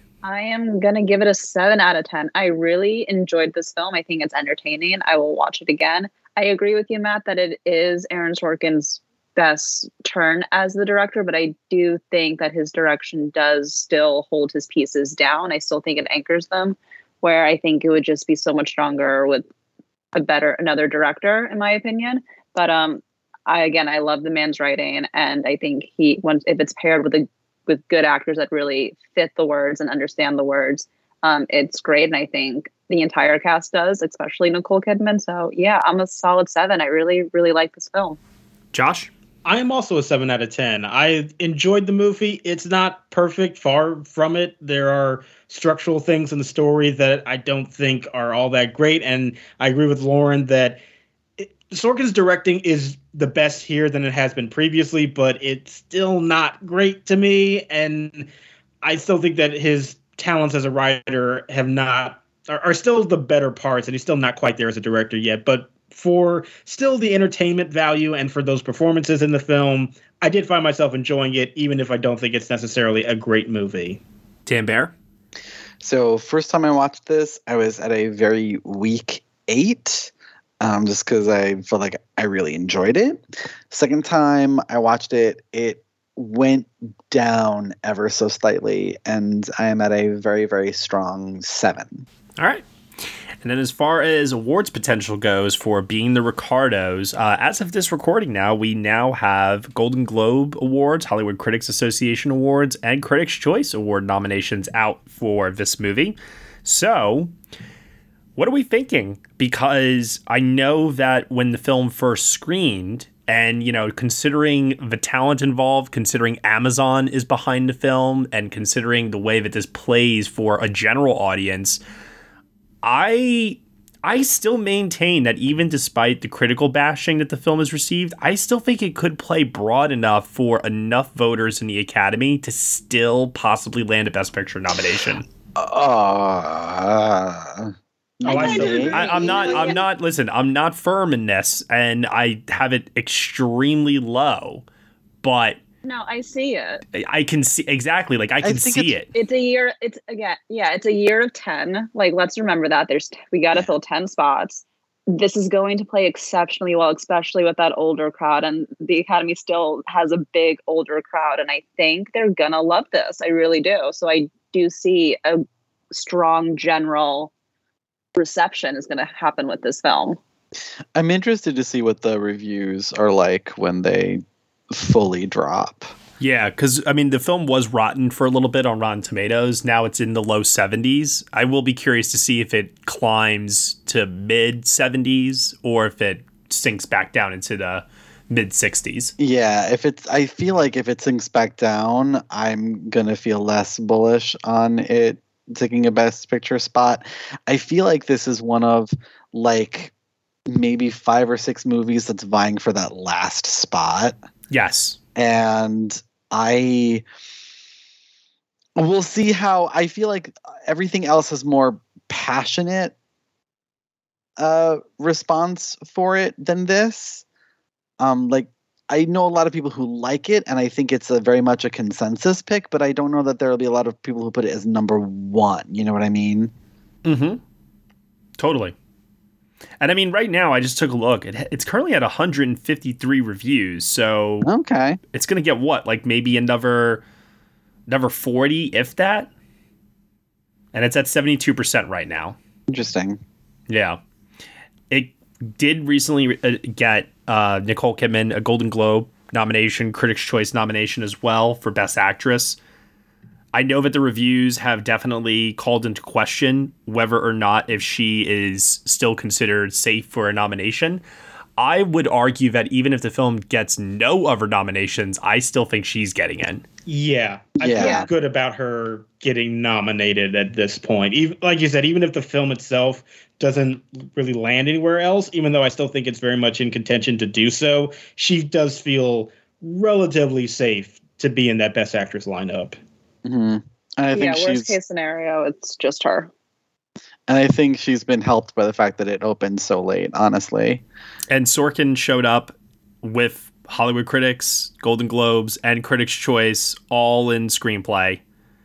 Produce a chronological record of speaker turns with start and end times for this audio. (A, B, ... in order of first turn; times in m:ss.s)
0:00.2-0:19.5 A
0:20.2-0:38.2 A
0:38.7-0:39.1 B
0:39.4-0:50.8 C
0:51.4-0:58.3 C
0:58.8-1:14.0 C
1:14.5-1:14.9 B
1:15.8-1:32.1 D
1:32.4-1:32.6 B
1:33.4-1:47.3 B
1:48.4-2:01.8 B
2:02.8-2:15.2 B
2:15.6-2:19.6 D
2:18.2-2:19.5 C
2:18.2-2:19.8 A
2:18.7-2:24.6 B
2:25.2-2:25.6 B
2:25.8-2:26.8 A
2:26.9-2:29.1 B
2:28.4-2:29.0 D
2:29.2-2:47.3 A
2:48.2-2:50.2 A
2:51.0-2:55.9 D
2:56.2-3:09.1 B
3:09.2-3:19.9 D
3:20.5-3:24.2 D
3:24.5-3:25.0 B
3:25.2-3:27.0 D
3:28.8-3:33.0 D
3:34.4-3:37.2 D
3:38.0-3:46.5 D
3:47.0-3:47.4 B
3:48.4-3:48.7 B
3:49.8-3:54.5 B
3:54.4-3:55.0 D
3:55.1-3:57.0 B
3:57.9-3:59.3 B
4:00.7-4:02.4 B
4:02.7-4:03.2 D
4:03.7-4:04.0 B
4:04.9-4:12.6 B
4:13.5-4:21.0 B
4:21.6-4:26.6 B
4:26.9-4:42.8 C
4:27.6-4:28.1 D
4:27.8-4:28.1 A
4:43.2-4:44.8 D
4:44.1-4:46.3 A
4:47.3-4:50.8 D
4:51.3-4:58.2 B